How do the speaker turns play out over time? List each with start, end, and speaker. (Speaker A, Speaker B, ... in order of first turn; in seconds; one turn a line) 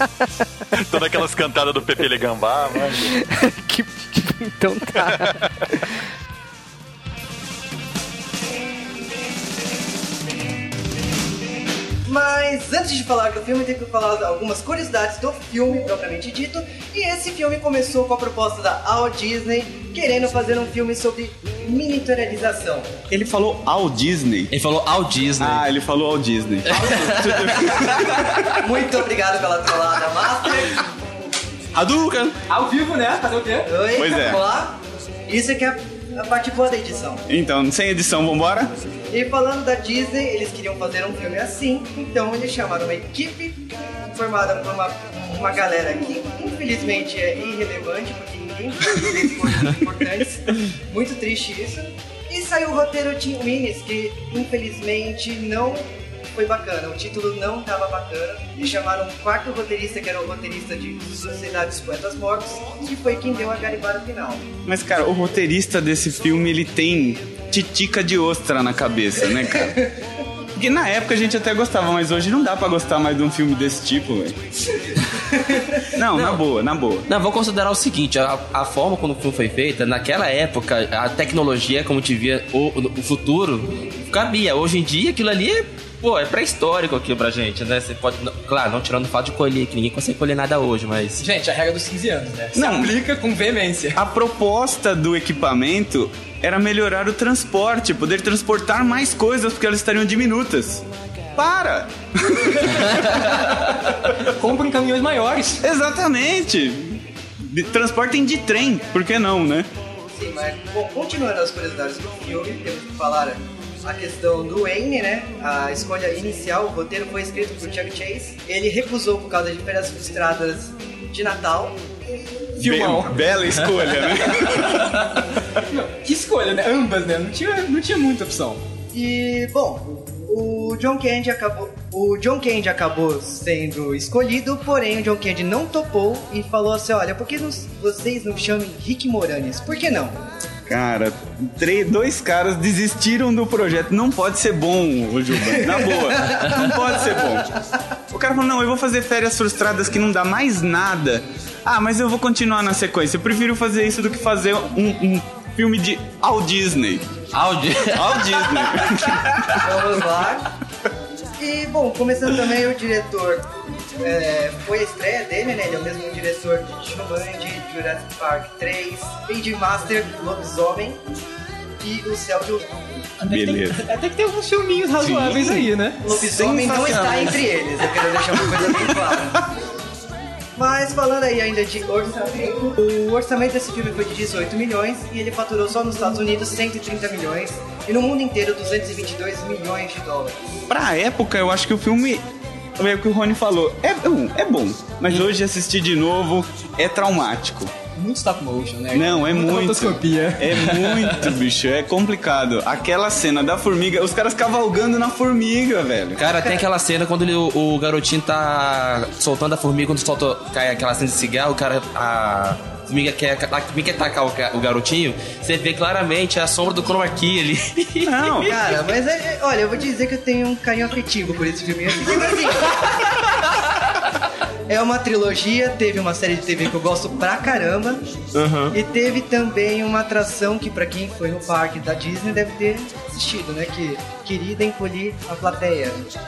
Speaker A: 0.7-3.2
Speaker B: 3.0-5.9
Speaker B: 12.1-23.0
Speaker C: 23.1-24.5
Speaker D: 24.5-25.7
Speaker C: 25.4-28.5
Speaker D: 26.7-28.6
Speaker B: 27.1-27.6
Speaker B: 28.5-30.8
Speaker D: 31.7-32.3
Speaker E: 32.5-33.7
Speaker B: 33.6-37.2
Speaker C: 34.0-34.4
Speaker C: 37.3-38.7
Speaker B: 39.1-64.5
Speaker C: 64.6-69.9
Speaker C: 70.5-74.4
Speaker C: 75.9-77.1
Speaker D: 76.1-76.4
Speaker D: 77.1-91.2
Speaker E: 91.2-94.0
Speaker C: 92.5-93.0
Speaker C: 93.9-103.4
Speaker E: 104.1-105.6
Speaker C: 105.6-109.7
Speaker B: 110.1-121.8
Speaker E: 122.6-123.3
Speaker C: 122.6-125.4
Speaker E: 124.1-128.6
Speaker B: 128.9-140.2
Speaker C: 140.7-147.5
Speaker B: 145.5-146.8
Speaker C: 148.1-157.1
Speaker D: 157.3-159.2
Speaker C: 157.9-159.7
Speaker B: 159.6-160.5
Speaker B: 161.4-171.0
Speaker B: 171.8-173.1
Speaker E: 173.2-177.3
Speaker C: 173.3-173.8
Speaker D: 175.1-175.6
Speaker C: 175.2-175.5
Speaker B: 176.0-179.5
Speaker C: 176.5-177.3
Speaker B: 180.6-190.4
Speaker C: 190.7-192.2
Speaker C: 192.8-197.7
Speaker E: 197.9-201.3
Speaker C: 198.9-206.2
Speaker D: 206.2-218.6
Speaker B: 206.2-206.6
Speaker C: 218.0-218.6
Speaker B: 218.4-222.8
Speaker B: 224.7-228.1
Speaker D: 228.3-228.8
Speaker B: 228.7-236.1